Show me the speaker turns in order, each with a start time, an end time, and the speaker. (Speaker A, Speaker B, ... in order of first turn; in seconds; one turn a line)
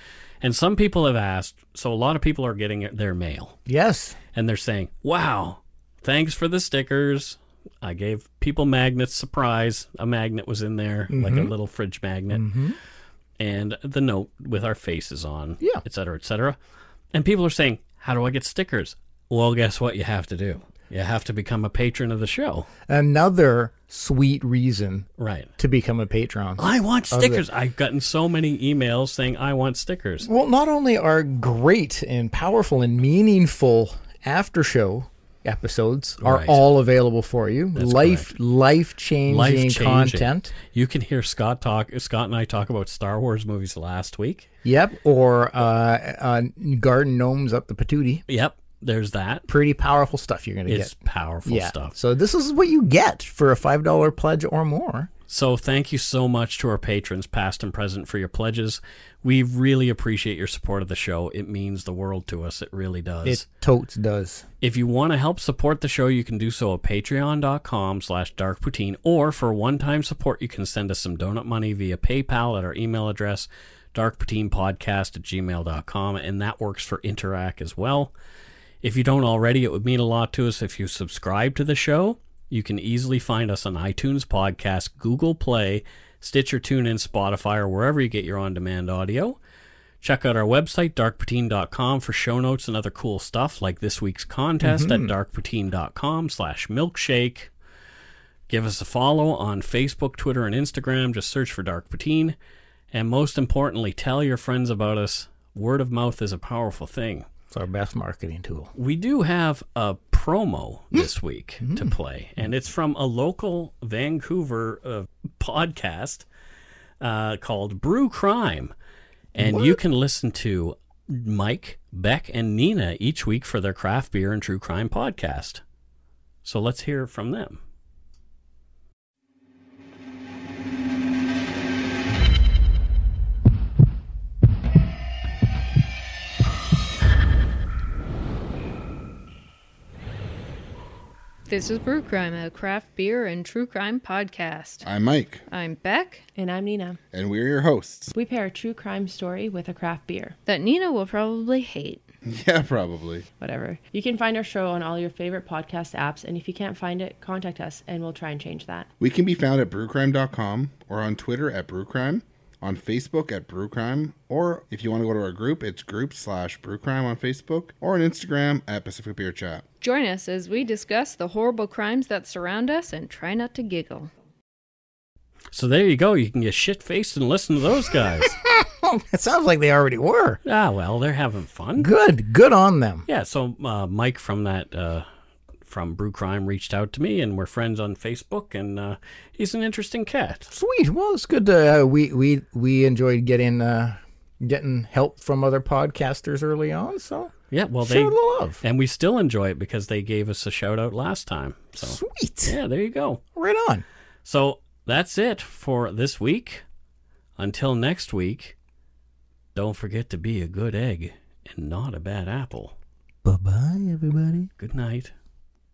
Speaker A: 0.4-3.6
Speaker B: 3.6-4.2
Speaker A: 4.3-12.5
Speaker B: 11.1-11.5
Speaker B: 12.3-12.8
Speaker A: 13.4-16.6
Speaker A: 17.1-22.7
Speaker B: 22.9-25.1
Speaker A: 25.2-25.5
Speaker B: 25.6-27.4
Speaker A: 26.6-30.3
Speaker B: 30.2-40.5
Speaker A: 36.2-36.6
Speaker A: 37.7-38.3
Speaker A: 39.3-44.5
Speaker B: 44.6-48.2
Speaker A: 48.3-49.5
Speaker B: 49.5-55.1
Speaker A: 50.6-51.9
Speaker A: 55.3-63.4
Speaker B: 63.2-64.5
Speaker A: 64.6-78.1
Speaker A: 78.8-89.4
Speaker A: 90.0-97.5
Speaker B: 94.6-95.1
Speaker A: 98.5-102.3
Speaker A: 102.9-107.2
Speaker B: 107.5-108.7
Speaker A: 108.7-116.2
Speaker B: 111.6-111.9
Speaker A: 117.0-118.7
Speaker B: 119.3-119.8
Speaker A: 119.3-125.6
Speaker A: 126.4-127.6
Speaker C: 141.5-144.8
Speaker D: 144.8-145.4
Speaker C: 145.5-146.2
Speaker E: 146.3-147.0
Speaker D: 147.1-148.1
Speaker E: 148.1-150.4
Speaker C: 150.4-152.0
Speaker D: 152.2-153.3
Speaker E: 153.4-158.9
Speaker D: 159.0-169.6
Speaker C: 169.8-174.1
Speaker A: 175.5-178.3
Speaker B: 178.2-180.4
Speaker A: 180.4-181.9
Speaker B: 181.8-183.1
Speaker A: 183.1-185.1
Speaker A: 185.7-190.5
Speaker B: 190.5-198.6
Speaker A: 197.5-203.2
Speaker B: 201.8-202.6
Speaker B: 203.3-203.8
Speaker A: 204.2-206.6
Speaker A: 207.4-208.6
Speaker A: 209.5-212.8
Speaker B: 213.2-214.5
Speaker A: 214.6-215.1